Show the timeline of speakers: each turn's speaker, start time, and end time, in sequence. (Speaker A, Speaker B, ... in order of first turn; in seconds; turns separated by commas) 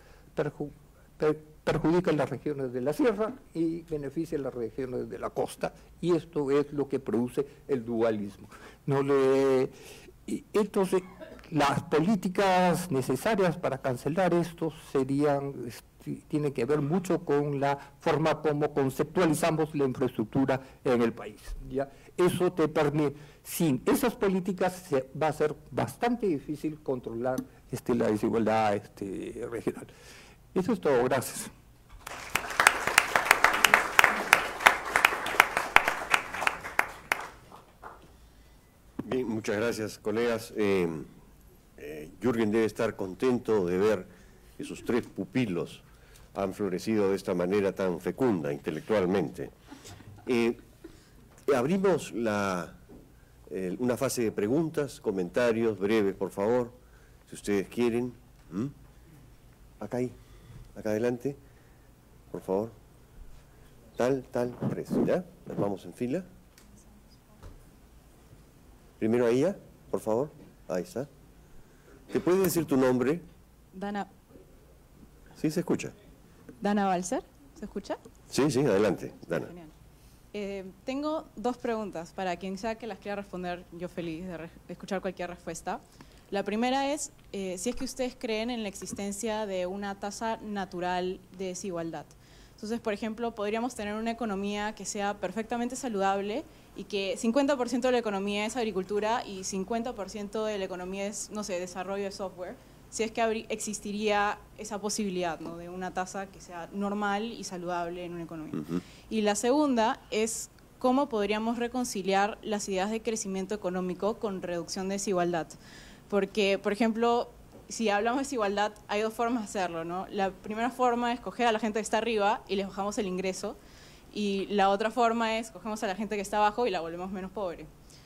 Speaker A: 0.4-9.7, Speaker A: 10.3-29.9, Speaker A: 30.5-31.5, Speaker B: 39.0-41.1, Speaker B: 41.8-45.8, Speaker B: 46.4-49.5, Speaker B: 50.3-50.6, Speaker B: 51.5-52.8, Speaker B: 53.5-56.8, Speaker B: 57.3-58.7, Speaker B: 59.8-60.1, Speaker B: 60.8-61.4, Speaker B: 62.3-62.8, Speaker B: 64.0-66.3, Speaker B: 69.0-71.1, Speaker B: 72.1-73.2, Speaker C: 73.7-74.1, Speaker B: 75.4-75.9, Speaker C: 76.6-78.0, Speaker B: 78.3-79.5, Speaker C: 79.4-79.7, Speaker C: 80.3-115.6, Speaker C: 116.1-123.6, Speaker C: 124.1-127.7